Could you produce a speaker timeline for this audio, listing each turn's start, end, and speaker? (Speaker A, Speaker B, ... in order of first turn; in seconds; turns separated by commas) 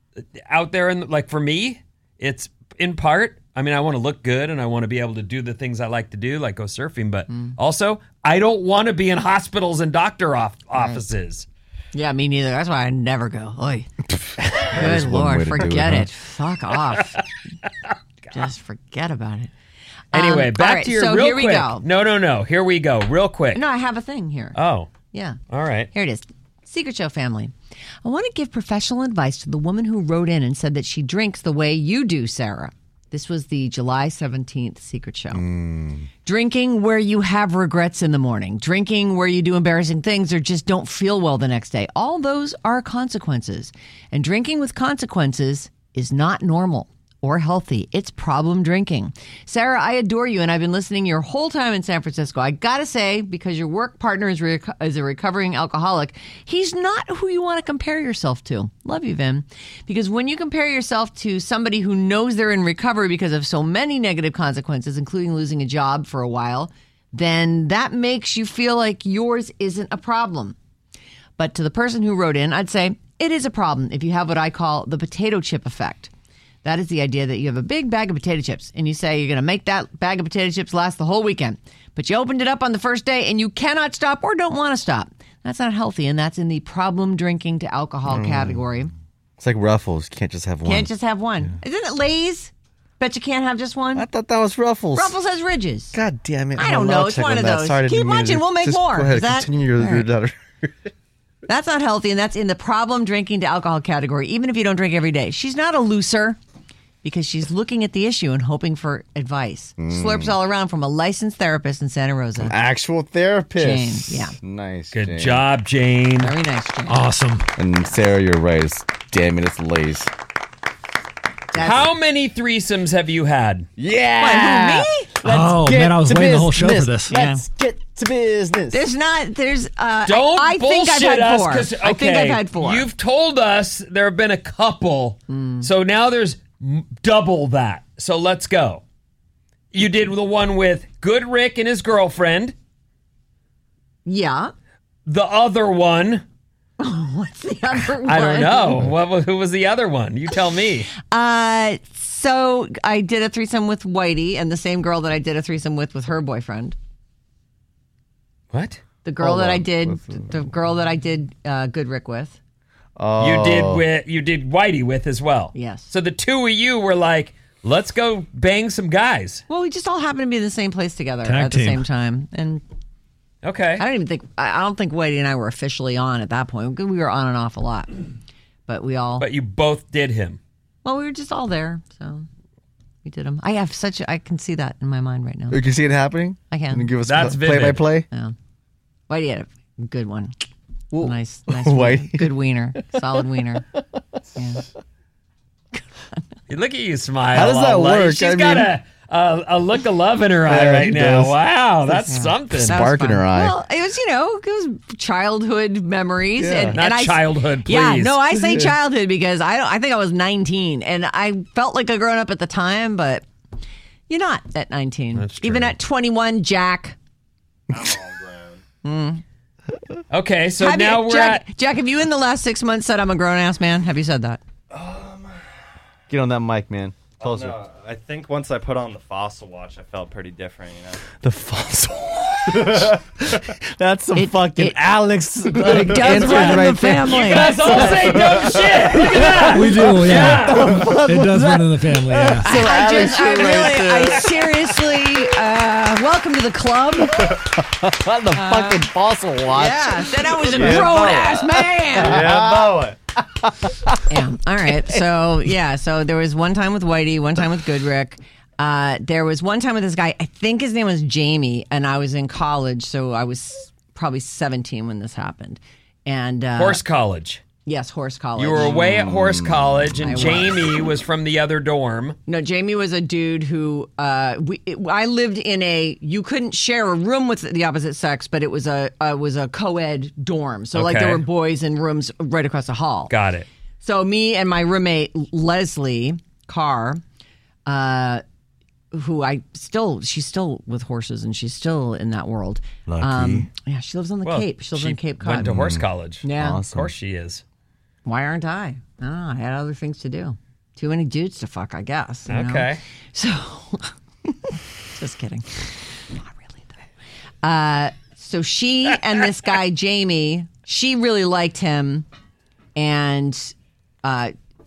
Speaker A: 0.2-11.5, Speaker B: 7.3-7.5, Speaker B: 10.7-11.0, Speaker B: 11.9-13.9, Speaker A: 14.6-15.0, Speaker C: 14.7-16.1, Speaker B: 14.7-17.2, Speaker B: 18.3-19.5, Speaker B: 20.1-21.8, Speaker A: 20.1-23.6, Speaker B: 23.5-24.6, Speaker A: 24.5-24.9, Speaker B: 25.1-25.4, Speaker A: 25.5-25.9, Speaker B: 25.9-35.5, Speaker C: 35.3-36.1, Speaker B: 36.2-70.6, Speaker B: 71.4-76.1, Speaker B: 76.6-88.9, Speaker C: 88.0-88.7, Speaker C: 89.4-91.6, Speaker B: 90.6-94.1, Speaker C: 94.0-95.1, Speaker B: 94.9-96.0, Speaker C: 95.9-100.9, Speaker B: 96.5-100.1, Speaker B: 101.5-106.4, Speaker B: 107.0-112.5, Speaker C: 109.8-110.4, Speaker C: 112.4-115.5, Speaker B: 113.6-114.3, Speaker A: 114.9-116.3, Speaker B: 116.2-117.0, Speaker D: 116.9-117.5, Speaker C: 117.6-120.1, Speaker A: 121.5-123.7, Speaker B: 121.5-121.9, Speaker C: 123.8-128.9, Speaker B: 124.2-125.1, Speaker D: 125.2-127.1, Speaker B: 127.1-127.4, Speaker B: 128.7-132.9, Speaker A: 130.1-138.8, Speaker B: 135.3-135.7, Speaker A: 139.7-142.5, Speaker B: 144.1-144.5, Speaker A: 145.1-146.2, Speaker B: 146.8-148.9, Speaker A: 147.8-150.9, Speaker B: 151.0-156.8, Speaker A: 158.5-158.8, Speaker B: 159.0-162.4, Speaker C: 159.2-160.4, Speaker C: 163.0-163.8, Speaker A: 163.2-169.4, Speaker B: 165.5-165.9, Speaker B: 169.5-172.6, Speaker D: 171.2-171.8, Speaker A: 173.4-173.8, Speaker B: 173.8-178.0, Speaker B: 178.7-179.3, Speaker A: 179.2-180.4, Speaker B: 180.8-182.2, Speaker B: 183.0-185.6, Speaker C: 185.5-188.1, Speaker B: 186.5-186.9, Speaker A: 187.1-187.9, Speaker B: 189.1-190.3, Speaker C: 190.9-192.3, Speaker B: 191.0-193.7, Speaker B: 194.3-194.7, Speaker A: 196.5-202.8, Speaker C: 197.3-198.7, Speaker C: 200.4-201.4, Speaker B: 202.0-213.2, Speaker C: 202.5-203.6, Speaker C: 206.4-206.8, Speaker A: 206.7-208.3, Speaker C: 208.4-208.8, Speaker B: 214.1-217.0, Speaker A: 215.1-215.8, Speaker E: 217.7-218.6, Speaker B: 218.8-219.2, Speaker A: 220.1-221.4, Speaker B: 220.6-224.4, Speaker C: 226.1-227.6, Speaker E: 227.2-231.0, Speaker C: 231.2-244.4, Speaker B: 234.1-234.8, Speaker B: 235.4-238.0, Speaker A: 235.9-240.7, Speaker D: 239.5-242.6, Speaker B: 242.4-247.4, Speaker C: 247.0-254.2, Speaker B: 248.3-248.9, Speaker B: 249.5-252.3, Speaker E: 250.5-251.3, Speaker E: 252.0-252.8, Speaker B: 254.1-266.8, Speaker A: 266.6-267.4, Speaker B: 267.6-268.8, Speaker A: 268.4-272.2, Speaker C: 268.6-270.3, Speaker B: 270.0-270.6, Speaker B: 272.2-283.1, Speaker A: 280.7-281.2, Speaker A: 283.1-283.5, Speaker B: 283.8-287.0, Speaker B: 287.6-288.2, Speaker B: 288.9-295.5, Speaker C: 292.9-293.5, Speaker A: 294.2-297.4, Speaker C: 295.4-296.9, Speaker B: 296.2-296.6, Speaker B: 298.0-306.8, Speaker A: 302.3-302.8, Speaker B: 307.4-312.1, Speaker B: 312.7-314.3